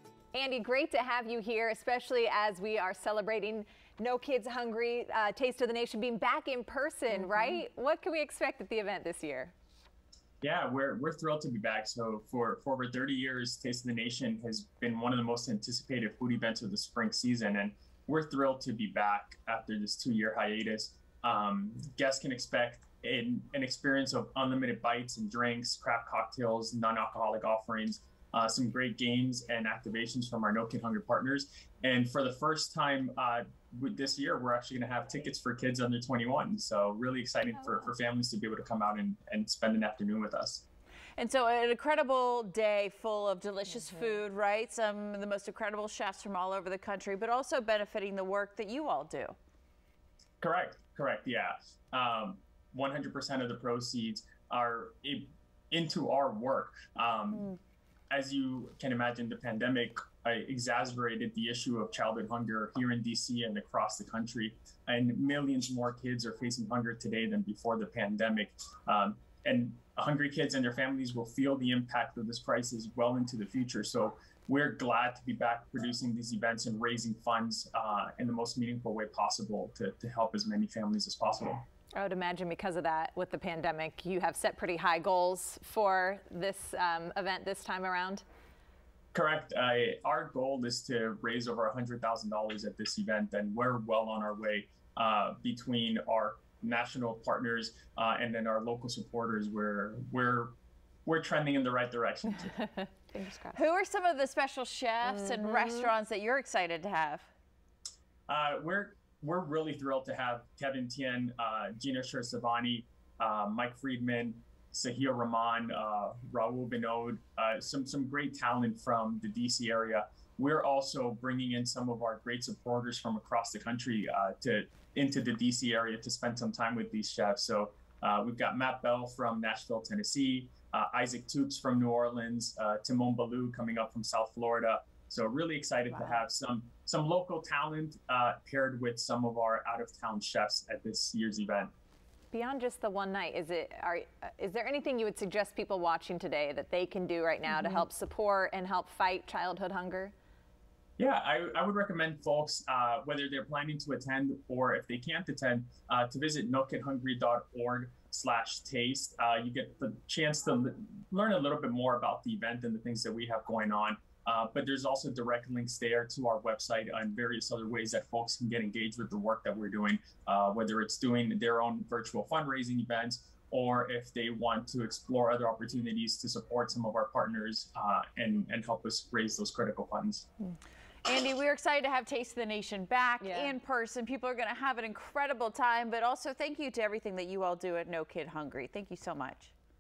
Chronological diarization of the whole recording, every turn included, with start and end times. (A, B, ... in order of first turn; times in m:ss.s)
0:00.3-0:09.5 A
0:10.4-0:40.6 B
0:41.2-0:49.4 C
0:50.4-0:57.5 B
0:58.1-1:21.6 B
1:22.0-1:28.2 A
1:29.1-1:42.6 B
1:43.1-1:43.6 A
1:43.5-1:47.3 C
1:45.3-1:45.9 A
1:48.3-2:21.7 B
2:22.3-2:30.1 A
2:31.0-3:00.3 B
3:01.0-3:09.5 C
3:03.2-3:03.6 A